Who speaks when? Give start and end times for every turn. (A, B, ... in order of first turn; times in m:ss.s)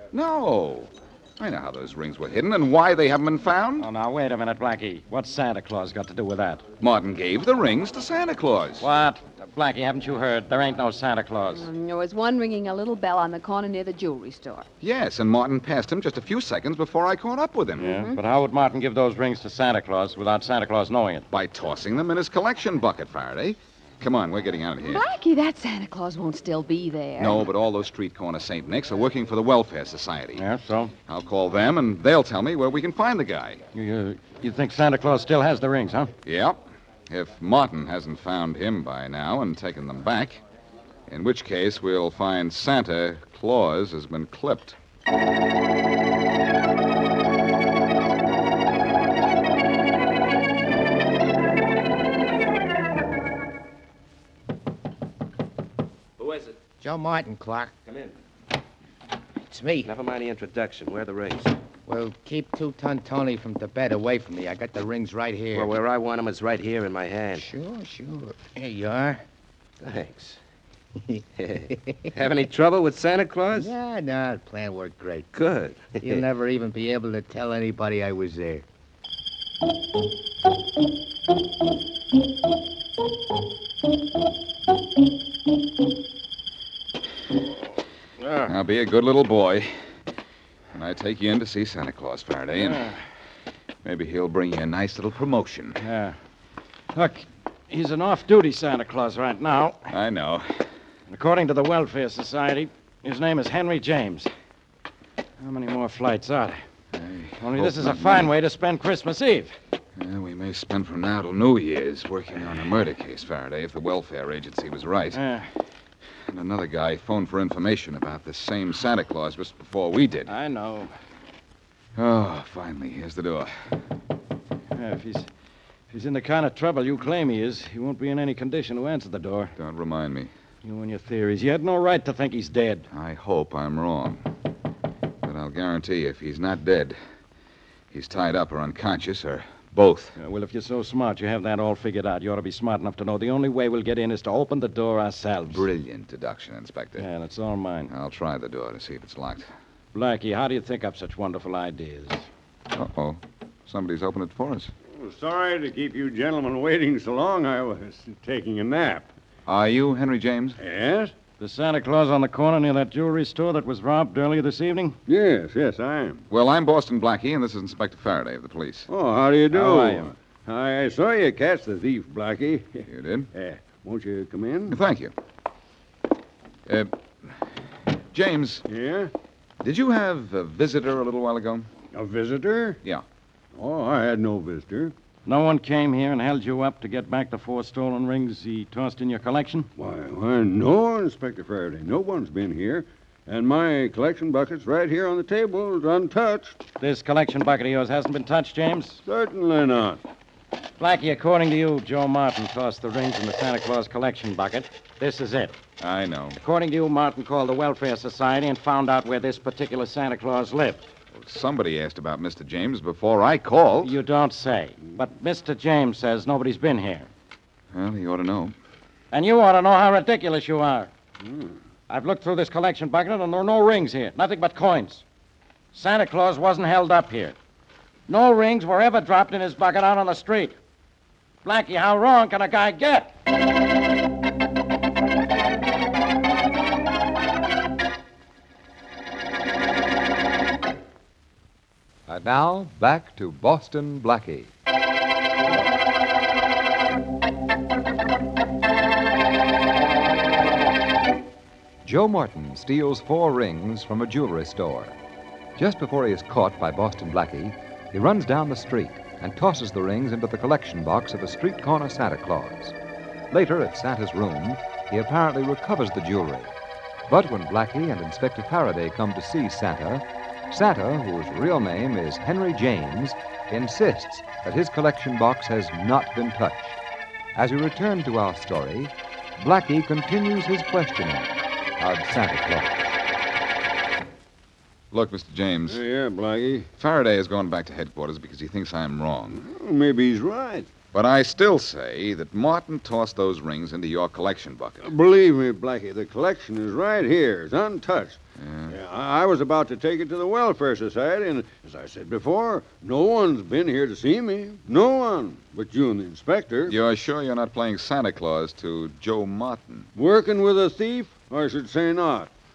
0:00.1-0:03.8 A
0:03.8-0:06.6 B
0:06.8-0:08.8 A
0:08.8-0:11.7 B
0:11.5-0:14.7 C
0:14.8-0:17.9 A
0:17.8-0:21.3 B
0:17.9-0:18.2 C
0:21.3-0:25.0 A
0:24.8-0:27.5 C
0:27.2-0:30.4 A
0:30.3-0:30.9 B
0:31.0-0:33.6 A
0:33.7-0:36.1 B
0:36.2-0:40.4 A
0:41.1-0:44.8 A
0:56.2-0:56.5 D
0:56.8-0:57.7 E
0:57.8-0:58.1 D
0:59.5-0:59.9 E
0:59.8-1:01.5 D
1:01.8-1:05.7 E
1:05.5-1:07.5 D
1:07.4-1:09.2 E
1:09.8-1:10.4 D
1:11.1-1:12.1 E
1:11.4-1:13.7 D
1:13.5-1:15.3 E
1:15.3-1:16.2 D
1:16.0-1:18.6 E
1:28.4-1:29.7 A
1:30.7-1:32.9 A
1:32.6-1:33.0 B
1:33.8-1:35.8 A
1:35.8-1:36.2 B
1:36.9-1:40.0 B
1:39.9-1:40.6 A
1:41.1-1:44.3 B
1:45.4-1:46.6 B
1:46.9-1:48.3 A
1:47.4-1:49.6 B
1:50.0-1:55.2 A
1:55.1-1:55.5 B
1:56.3-2:00.3 A
2:00.3-2:00.9 B
2:02.0-2:03.5 A
2:04.7-2:05.3 B
2:05.9-2:09.5 B
2:09.6-2:10.3 A
2:10.6-2:12.8 B
2:12.9-2:14.2 A
2:15.2-2:17.0 A
2:17.9-2:20.1 A
2:20.2-2:25.6 B
2:25.5-2:27.1 A
2:27.0-2:27.9 B
2:27.9-2:29.5 A
2:29.9-2:32.2 B
2:32.7-2:34.7 A
2:34.9-2:39.1 F
2:39.4-2:40.6 A
2:40.6-2:41.1 F
2:41.4-2:45.0 B
2:45.0-2:46.2 F
2:46.3-2:48.9 A
2:48.9-2:54.8 F
2:49.5-2:50.1 B
2:52.9-2:53.3 A
2:54.7-2:55.1 A
2:56.7-2:57.4 A
2:58.1-2:58.6 A
2:58.6-2:59.1 F
2:59.6-3:01.7 A
3:01.9-3:02.8 F
3:03.5-3:04.9 F
3:05.2-3:09.7 B
3:09.8-3:16.6 F
3:16.8-3:19.0 B
3:19.0-3:20.0 F
3:20.8-3:25.6 B
3:25.8-3:26.4 A
3:26.4-3:30.9 B
3:31.1-3:33.9 A
3:33.8-3:37.1 B
3:37.7-3:38.5 A
3:39.1-3:40.9 B
3:41.2-3:41.6 F
3:41.9-3:45.0 B
3:45.7-3:47.4 B
3:48.1-3:50.6 B
3:51.4-3:53.1 B
4:02.1-4:04.5 G
4:11.8-4:14.9 G
4:15.6-4:22.7 G
4:23.3-4:26.5 G
4:27.1-4:36.8 G
4:37.4-4:42.9 G
4:44.9-4:45.8 A
4:45.7-4:46.7 F
4:46.8-4:49.4 A
4:49.3-4:50.7 F
4:50.9-4:54.9 A
4:54.8-5:06.8 F
4:58.4-4:58.8 A
5:06.7-5:09.9 A
5:09.9-5:12.3 F